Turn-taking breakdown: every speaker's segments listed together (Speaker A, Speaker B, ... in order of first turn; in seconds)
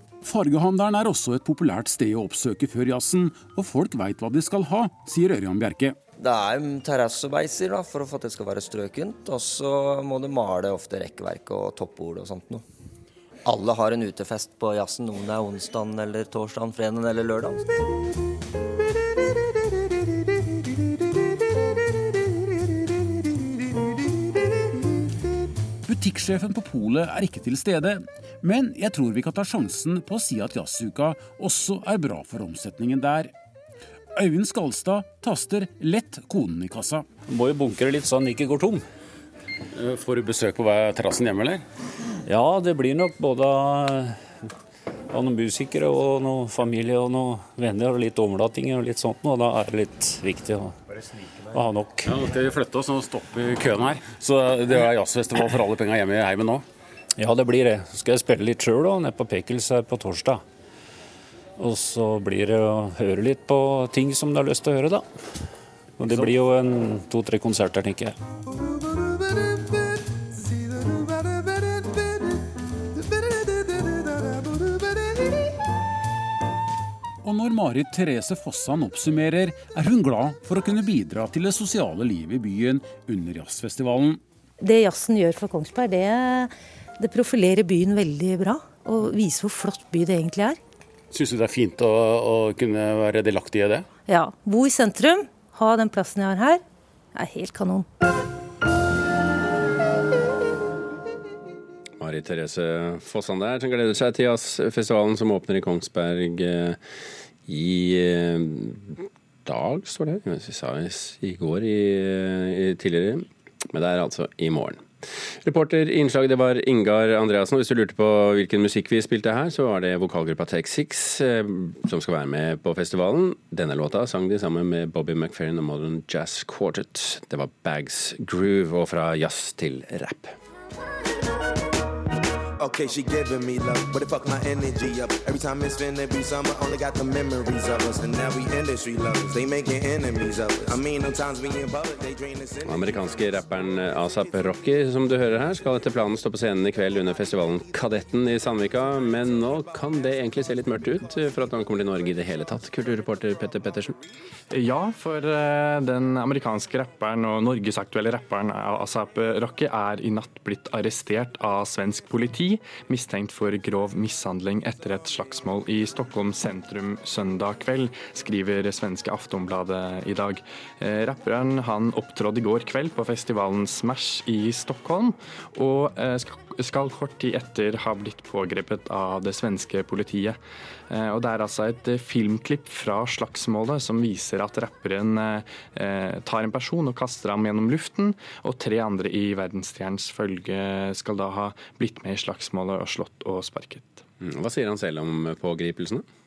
Speaker A: 0.2-6.0, 25.9-33.3, 34.2-37.2, 39.8-41.6, 52.1-56.7, 77.2-84.2, 91.1-93.9
Speaker B: 6.2-12.6, 13.5-17.6
Speaker C: 37.2-38.9, 42.2-44.3, 45.1-50.8, 51.5-52.1, 57.2-60.4, 61.6-65.1, 66.0-68.2
Speaker D: 84.6-90.6, 94.1-96.6, 97.2-97.9
Speaker E: 102.0-106.8, 107.5-114.8, 115.4-130.3, 142.6-154.0, 194.2-196.1
Speaker F: 132.6-142.8
Speaker G: 154.5-180.4, 180.9-194.0